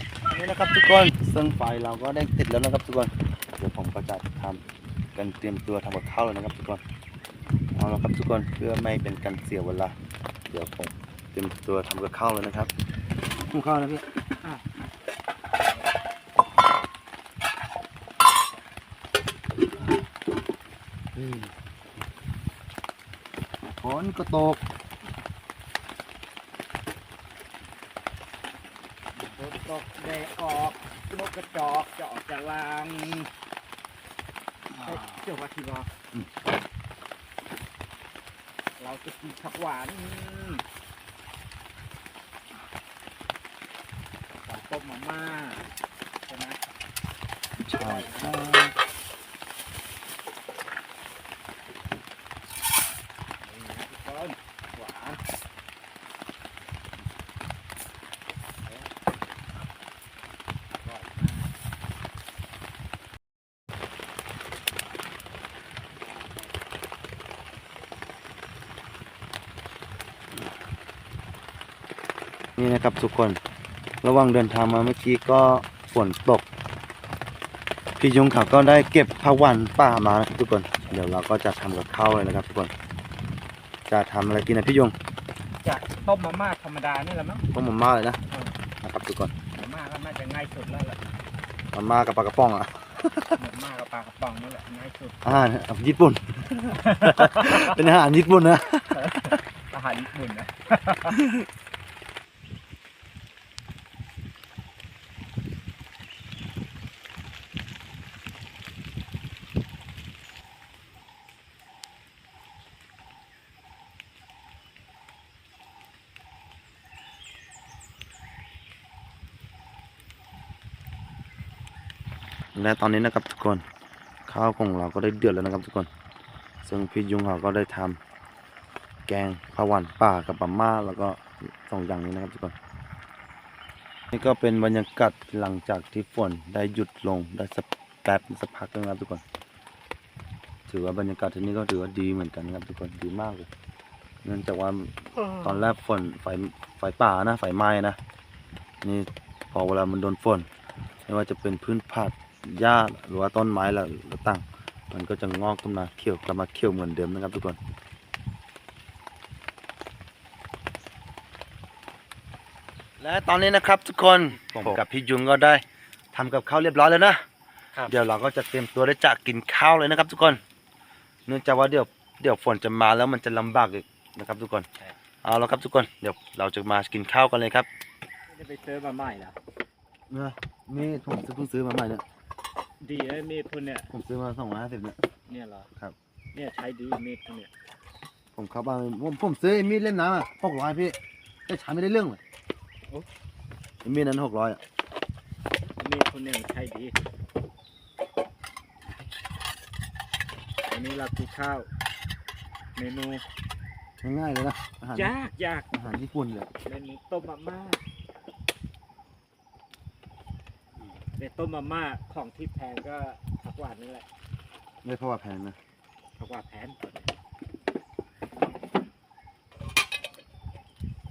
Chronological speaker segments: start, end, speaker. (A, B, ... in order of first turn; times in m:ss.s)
0:00.3-0:04.6 A
0:05.1-0:06.8 A
0:07.7-0:10.0 A
0:10.5-0:12.7 A
0:13.5-0:14.0 A
0:21.2-0:21.5 A
0:23.8-0:24.6 A
0:29.3-0:33.3 B
0:34.7-0:35.2 A
0:34.8-0:35.9 B
0:38.8-0:40.6 B
0:44.4-0:45.7 B
0:46.3-0:46.6 B
0:47.6-0:48.7 A
0:47.7-0:48.4 B
0:53.4-0:55.2 B
1:00.8-1:01.5 B
1:12.6-1:13.4 A
1:14.0-1:16.4 A
1:18.0-1:22.7 A
1:23.9-1:25.0 A
1:25.6-1:27.4 B
1:27.5-1:28.2 A
1:28.3-1:28.6 B
1:28.8-1:29.3 A
1:29.5-1:31.0 B
1:31.7-1:33.4 A
1:33.4-1:35.3 B
1:35.2-1:39.4 A
1:36.8-1:37.8 B
1:39.0-1:41.2 B
2:02.5-2:03.6 A
2:04.3-2:05.9 A
2:06.6-2:08.0 A
2:09.1-2:12.5 A
2:14.1-2:19.2 A
2:20.7-2:23.5 A
2:24.2-2:28.0 A
2:25.2-2:25.5 B
2:28.8-2:30.5 A
2:31.0-2:37.6 A
2:43.0-2:47.2 A
2:47.9-2:50.4 A
2:51.3-2:54.7 A
2:55.2-2:57.7 A
2:58.3-2:59.4 B
3:00.1-3:02.0 A
3:02.8-3:03.9 B
3:03.9-3:05.0 A
3:05.3-3:05.7 B
3:06.3-3:07.5 B
3:08.3-3:12.2 A
3:13.8-3:14.6 A
3:15.8-3:17.0 B
3:20.6-3:21.7 B
3:22.8-3:23.2 B
3:24.0-3:25.1 A
3:24.9-3:25.7 B
3:25.7-3:26.5 A
3:26.6-3:27.8 B
3:31.2-3:34.0 B
3:34.8-3:35.6 A
3:36.2-3:37.1 B